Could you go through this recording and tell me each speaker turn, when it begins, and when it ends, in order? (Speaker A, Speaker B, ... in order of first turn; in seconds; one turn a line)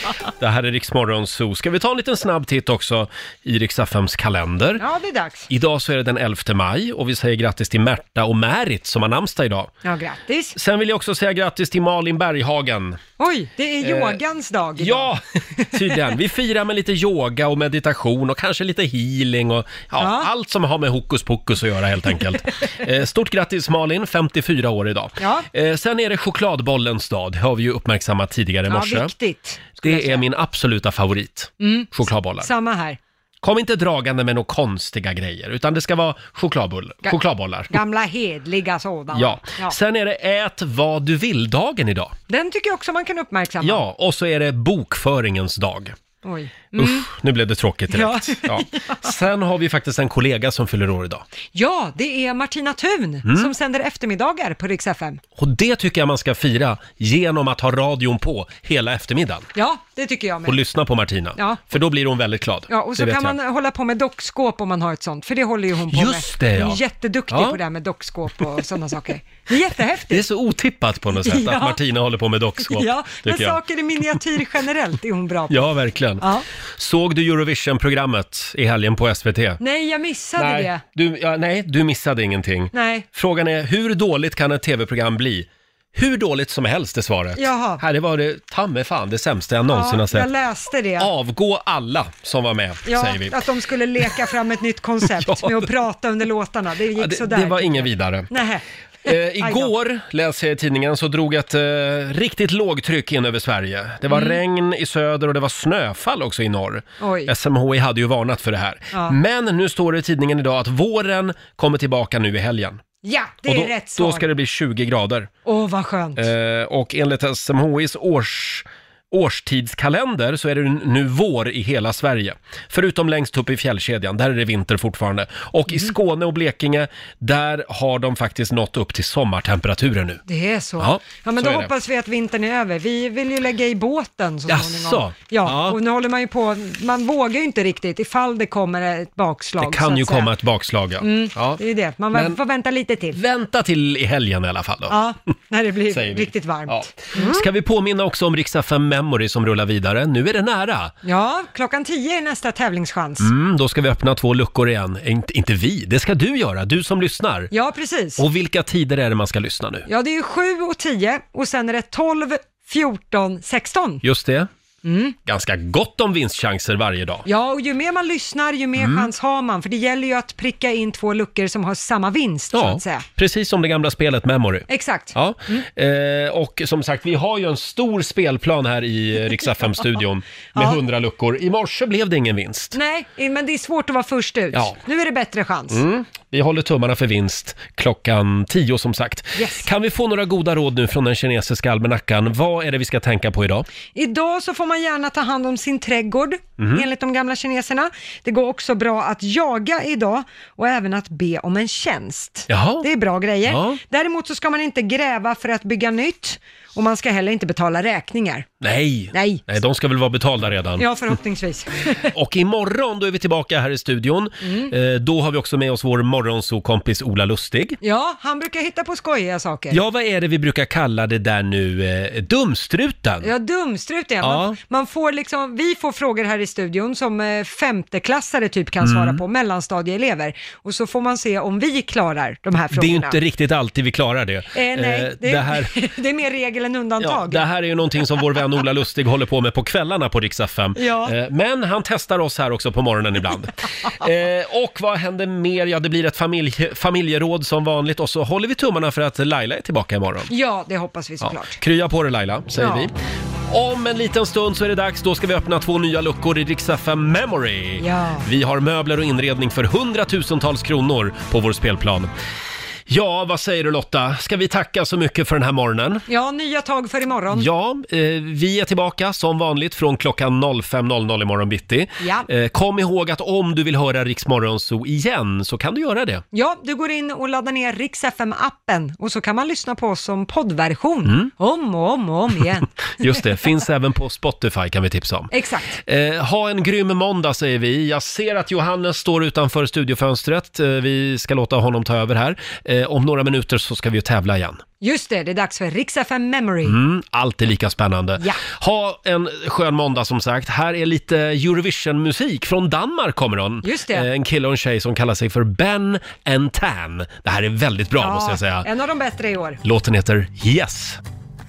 Speaker A: 0.4-4.8
Speaker B: 4.8-5.5
Speaker A: 5.5-9.7
Speaker B: 9.8-10.6
Speaker A: 10.5-13.0
Speaker B: 13.2-15.1
Speaker A: 13.8-14.2
Speaker A: 14.8-29.1
Speaker B: 20.0-20.3
Speaker B: 25.2-25.5
Speaker B: 28.7-30.2
Speaker A: 29.8-32.5
Speaker B: 31.6-31.9
Speaker B: 32.4-33.0
Speaker A: 33.4-37.7
Speaker B: 37.7-39.8
Speaker A: 39.1-42.1
Speaker B: 42.3-43.8
Speaker A: 43.6-46.0
Speaker B: 46.2-47.1
Speaker A: 46.8-51.2
Speaker B: 47.9-49.0
Speaker B: 51.5-55.2
Speaker A: 53.3-53.5
Speaker A: 55.4-59.5
Speaker B: 59.5-60.6
Speaker A: 60.5-63.4
Speaker B: 61.4-61.6
Speaker B: 62.7-70.3
Speaker A: 65.9-67.6
Speaker A: 70.1-73.6
Speaker B: 71.2-71.8
Speaker B: 72.7-75.5
Speaker A: 75.5-79.6
Speaker B: 79.6-80.8
Speaker A: 80.4-90.3
Speaker B: 82.7-83.1
Speaker B: 87.4-87.8
Speaker B: 89.7-91.1
Speaker A: 91.0-93.4
Speaker B: 92.9-99.7
Speaker A: 95.2-95.7
Speaker A: 97.0-98.3
Speaker A: 99.1-112.8
Speaker B: 104.1-104.4
Speaker B: 107.0-107.3
Speaker B: 113.0-114.3
Speaker A: 113.5-115.3
Speaker B: 115.5-116.3
Speaker A: 116.2-130.2
Speaker B: 130.3-140.3
Speaker A: 130.8-131.7
Speaker A: 134.5-135.8
Speaker A: 139.6-141.6
Speaker B: 141.0-143.2
Speaker A: 142.1-142.4
Speaker A: 143.1-145.0
Speaker B: 144.9-147.5
Speaker A: 145.9-150.9
Speaker B: 151.0-153.3
Speaker A: 153.2-157.5
Speaker B: 157.5-158.2
Speaker A: 158.2-159.9
Speaker B: 159.9-164.0
Speaker A: 164.0-164.5
Speaker B: 164.8-165.2
Speaker A: 165.3-167.2
Speaker B: 167.3-173.1
Speaker A: 168.8-169.1
Speaker A: 172.5-182.8
Speaker B: 174.7-175.6
Speaker B: 182.7-185.8
Speaker A: 185.7-193.7
Speaker B: 189.4-189.7
Speaker B: 193.9-208.5
Speaker A: 196.6-196.8
Speaker A: 202.5-202.9
Speaker A: 203.4-203.8
Speaker A: 208.6-210.8
Speaker B: 209.1-209.4
Speaker B: 210.8-212.1
Speaker A: 212.1-217.8
Speaker B: 214.4-214.7
Speaker B: 217.8-219.8
Speaker A: 219.7-223.3
Speaker B: 223.2-233.2
Speaker A: 224.2-224.6
Speaker A: 228.8-229.2
Speaker A: 232.7-235.7
Speaker B: 234.5-237.5
Speaker A: 237.0-250.3
Speaker B: 240.8-241.1
Speaker B: 250.3-251.6
Speaker A: 251.2-252.9
Speaker B: 252.6-252.9
Speaker A: 253.5-262.1
Speaker B: 257.8-258.3
Speaker A: 262.9-266.0
Speaker B: 266.1-267.5
Speaker A: 267.3-276.2
Speaker B: 272.0-272.3
Speaker B: 276.3-282.7
Speaker A: 283.0-294.6
Speaker B: 285.3-285.8
Speaker B: 294.8-296.8
Speaker A: 296.6-308.7
Speaker B: 303.6-304.1
Speaker B: 308.0-309.6
Speaker A: 309.6-311.0